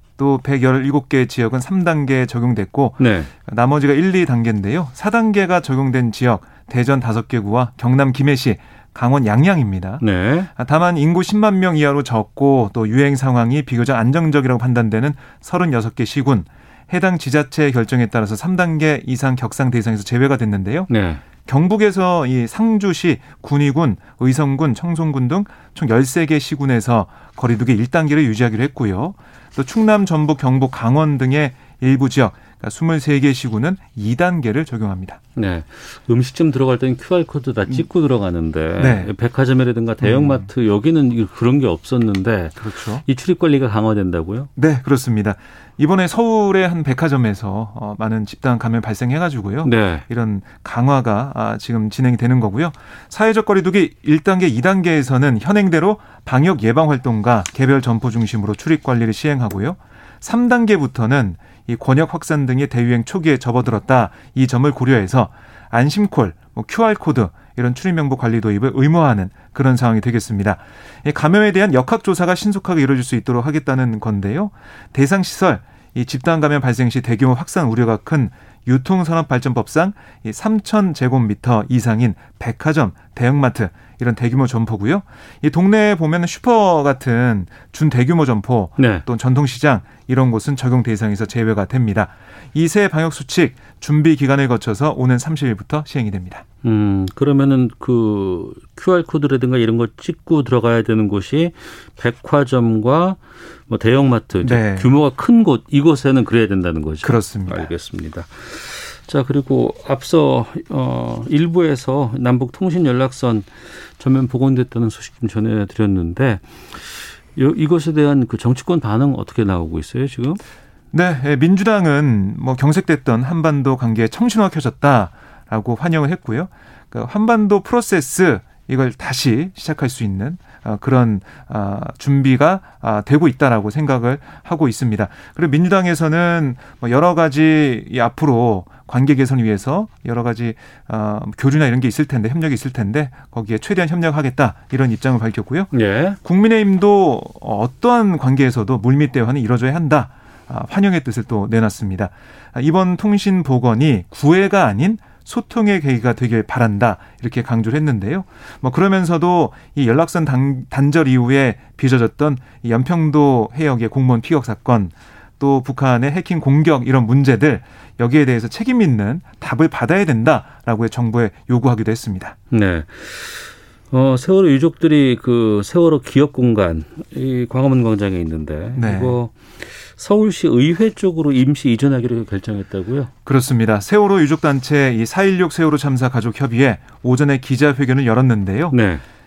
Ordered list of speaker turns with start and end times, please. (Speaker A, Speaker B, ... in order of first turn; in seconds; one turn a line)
Speaker A: 0.2-10.0
Speaker B: 3.0-3.3
Speaker B: 10.0-10.5
Speaker A: 10.6-20.9
Speaker B: 20.9-21.2
Speaker A: 21.4-35.2
Speaker B: 35.4-44.5
Speaker A: 38.8-39.1
Speaker A: 40.0-40.5
Speaker A: 42.6-43.0
Speaker A: 44.5-96.4
Speaker B: 49.6-50.1
Speaker B: 88.8-89.0
Speaker B: 96.6-120.4
Speaker A: 104.4-104.9
Speaker A: 107.0-107.7
Speaker A: 120.9-145.7
Speaker B: 145.7-146.2
Speaker A: 146.2-172.3
Speaker B: 172.5-183.1
Speaker A: 178.7-179.2
Speaker A: 183.2-188.8
Speaker B: 188.7-189.0